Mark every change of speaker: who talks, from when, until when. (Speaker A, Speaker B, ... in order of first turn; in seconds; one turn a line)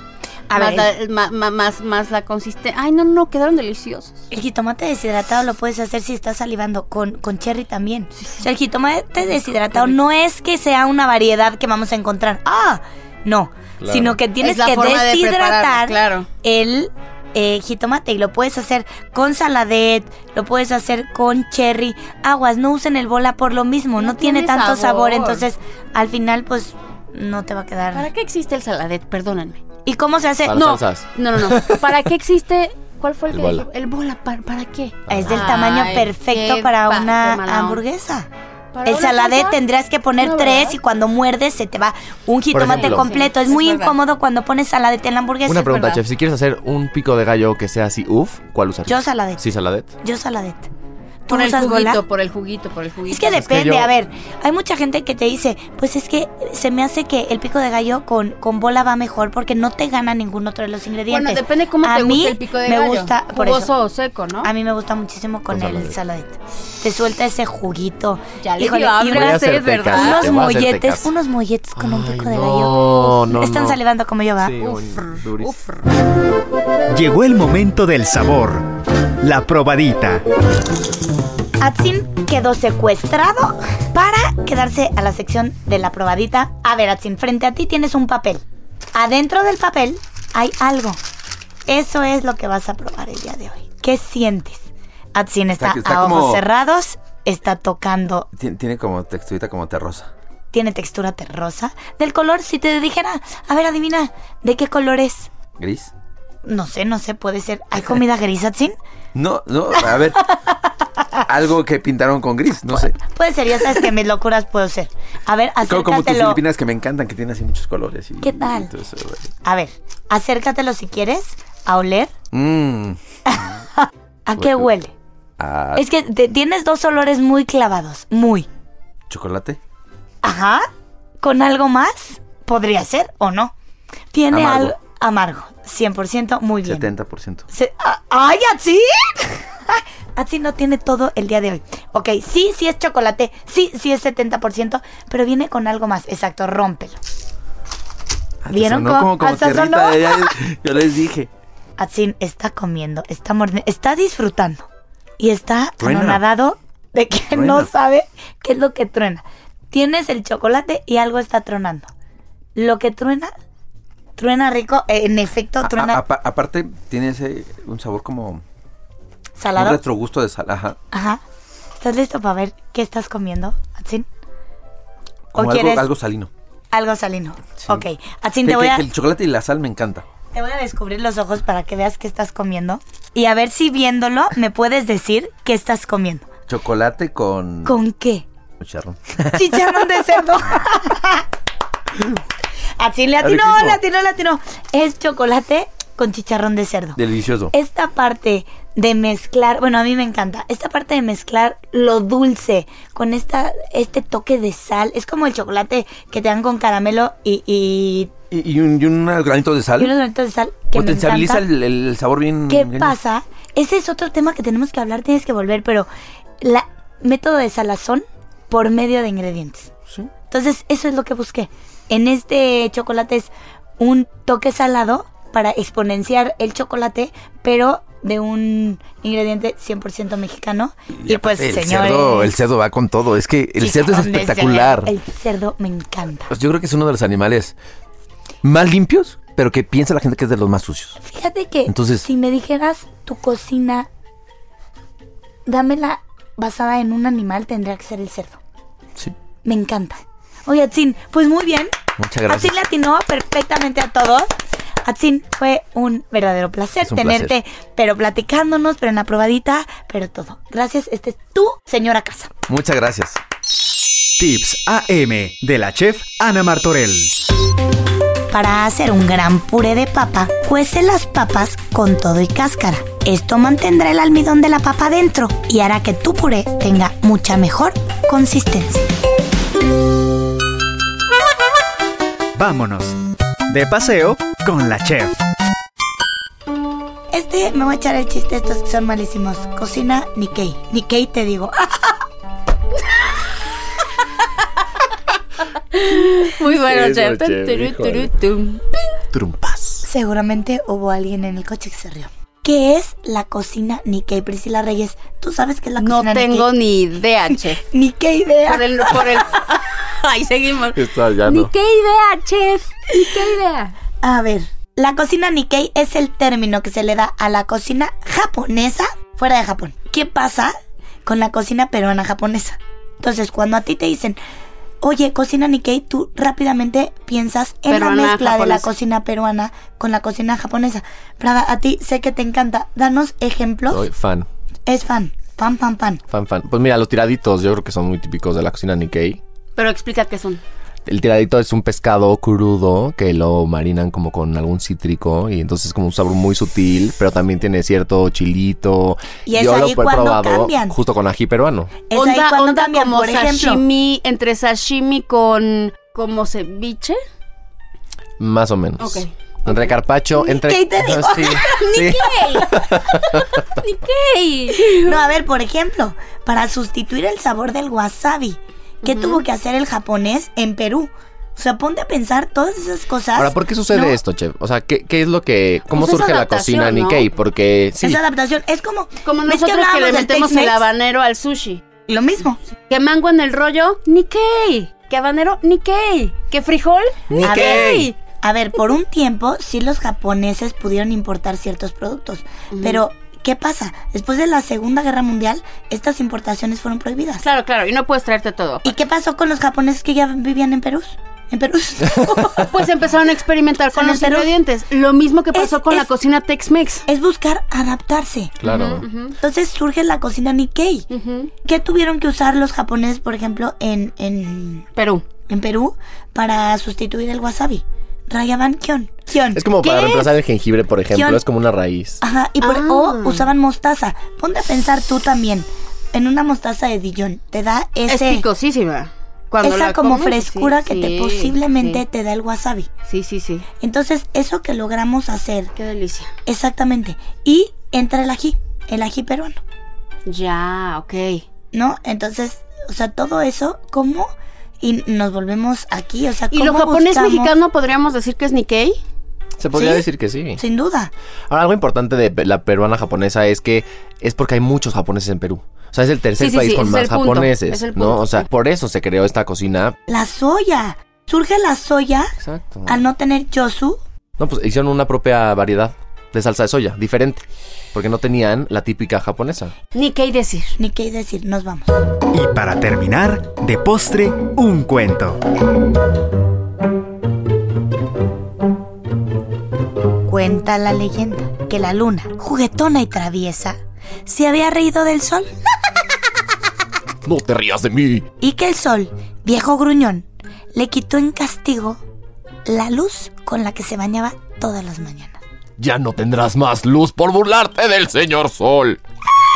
Speaker A: 0.5-0.9
Speaker B: 0.5-4.2
Speaker A: 4.3-28.1
Speaker C: 13.8-14.2
Speaker B: 14.4-16.3
Speaker B: 24.0-25.5
Speaker B: 27.9-29.6
Speaker A: 29.9-30.6
Speaker C: 30.5-32.0
Speaker B: 30.5-37.8
Speaker C: 33.3-33.6
Speaker C: 35.1-35.5
Speaker A: 35.1-38.3
Speaker B: 38.7-39.6
Speaker A: 38.9-46.0
Speaker B: 40.2-40.8
Speaker C: 42.5-43.1
Speaker B: 42.6-44.0
Speaker C: 45.5-49.9
Speaker A: 48.9-49.4
Speaker A: 50.0-50.7
Speaker A: 51.3-52.0
Speaker B: 51.3-53.5
Speaker A: 53.1-63.7
Speaker C: 53.3-53.9
Speaker B: 61.1-64.5
Speaker A: 64.4-74.5
Speaker C: 65.5-66.0
Speaker B: 68.4-70.4
Speaker C: 69.1-71.1
Speaker C: 71.8-73.8
Speaker C: 74.4-75.6
Speaker B: 74.6-75.8
Speaker D: 76.9-78.7
Speaker D: 79.2-80.2
Speaker A: 81.6-88.4
Speaker A: 88.9-91.0
Speaker A: 91.7-98.3
Speaker E: 95.6-96.4
Speaker E: 98.3-100.1
Speaker A: 100.5-105.3
Speaker E: 105.6-105.9
Speaker A: 106.5-108.8
Speaker E: 109.1-110.3
Speaker E: 111.2-113.0
Speaker A: 112.7-116.4
Speaker E: 115.7-119.3
Speaker A: 118.2-118.7
Speaker A: 119.5-122.1
Speaker E: 122.3-123.5
Speaker A: 123.3-124.9
Speaker E: 124.4-124.7
Speaker E: 125.4-125.8
Speaker A: 125.8-128.5
Speaker E: 129.1-129.6
Speaker A: 130.2-130.7
Speaker A: 131.2-133.5
Speaker A: 134.1-136.9
Speaker E: 134.3-134.8
Speaker E: 136.6-137.4
Speaker A: 137.5-147.0
Speaker E: 148.4-151.3
Speaker A: 148.5-150.3
Speaker A: 151.8-154.7
Speaker A: 155.2-161.9
Speaker E: 155.8-156.2
Speaker E: 157.3-157.7
Speaker A: 162.6-163.3
Speaker A: 164.2-166.0
Speaker E: 165.6-168.4
Speaker A: 169.4-169.8
Speaker E: 169.6-170.8
Speaker A: 170.9-171.2
Speaker A: 171.8-174.1
Speaker E: 175.3-176.3
Speaker A: 175.3-175.9
Speaker A: 176.7-178.8
Speaker E: 178.4-180.0
Speaker A: 180.3-186.2
Speaker E: 186.5-187.8
Speaker A: 187.7-188.2
Speaker E: 188.6-189.8
Speaker A: 189.3-191.2
Speaker A: 192.8-197.0
Speaker E: 193.2-193.8
Speaker E: 197.0-197.5
Speaker A: 197.5-208.1
Speaker E: 208.3-209.9
Speaker A: 209.8-211.4
Speaker E: 210.7-213.0
Speaker A: 212.5-215.9
Speaker A: 216.4-219.7
Speaker A: 220.3-232.3
Speaker E: 231.0-234.9
Speaker A: 233.6-236.3
Speaker E: 236.3-237.5
Speaker E: 238.4-241.0
Speaker A: 241.0-243.9
Speaker E: 241.7-242.1
Speaker A: 245.5-248.4
Speaker A: 249.4-251.7
Speaker E: 252.0-252.6
Speaker A: 252.3-254.3
Speaker A: 254.8-262.3
Speaker E: 256.8-257.3
Speaker E: 262.5-263.2
Speaker D: 264.2-267.1
Speaker A: 268.3-278.9
Speaker D: 282.4-283.0
Speaker D: 283.5-285.2
Speaker A: 287.1-292.0
Speaker B: 295.7-299.0
Speaker C: 296.5-298.1
Speaker C: 299.1-299.9
Speaker A: 299.8-306.5
Speaker B: 305.8-307.6
Speaker A: 307.7-309.2
Speaker B: 308.5-313.8
Speaker C: 310.8-311.5
Speaker A: 314.0-320.5
Speaker A: 321.1-324.2
Speaker A: 324.8-333.8
Speaker B: 327.7-328.7
Speaker C: 333.7-334.3
Speaker A: 334.7-336.0
Speaker C: 336.1-339.2
Speaker B: 339.6-340.4
Speaker C: 340.9-351.7
Speaker A: 349.2-350.8
Speaker A: 351.9-353.6
Speaker B: 351.9-357.0
Speaker C: 358.2-363.4
Speaker B: 358.8-359.8
Speaker A: 360.2-361.6
Speaker B: 361.2-365.0
Speaker A: 364.7-374.0
Speaker B: 368.8-369.2
Speaker C: 373.2-378.0
Speaker B: 375.7-377.1
Speaker A: 377.8-380.6
Speaker B: 379.0-381.6
Speaker A: 381.9-382.4
Speaker B: 382.6-388.0
Speaker E: 387.2-387.9
Speaker A: 387.2-397.2
Speaker B: 392.5-392.8
Speaker B: 397.2-398.8
Speaker A: 398.6-402.5
Speaker B: 402.0-406.9
Speaker A: 403.8-404.3
Speaker A: 405.3-405.9
Speaker A: 406.9-408.4
Speaker C: 408.4-408.8
Speaker B: 408.4-409.2
Speaker A: 409.2-410.9
Speaker B: 410.9-411.3
Speaker A: 411.4-414.7
Speaker B: 414.8-415.0
Speaker A: 415.3-420.1
Speaker C: 419.3-422.0
Speaker A: 420.9-421.2
Speaker A: 422.0-428.2
Speaker B: 422.4-423.3
Speaker B: 427.9-431.8
Speaker A: 429.4-432.7
Speaker B: 432.9-433.5
Speaker A: 433.6-435.5
Speaker B: 435.5-436.1
Speaker A: 436.2-439.4
Speaker B: 440.1-441.2
Speaker A: 441.5-447.3
Speaker B: 446.3-448.8
Speaker C: 449.4-450.4
Speaker A: 449.5-449.8
Speaker A: 450.4-450.9
Speaker C: 451.3-459.8
Speaker B: 456.2-458.3
Speaker A: 459.9-462.1
Speaker C: 462.2-462.8
Speaker A: 462.7-463.8
Speaker C: 464.2-469.5
Speaker B: 469.7-470.6
Speaker A: 470.6-471.7
Speaker D: 472.1-475.2
Speaker A: 480.1-485.3
Speaker C: 487.0-488.1
Speaker A: 488.2-491.8
Speaker A: 492.5-495.2
Speaker C: 495.6-498.8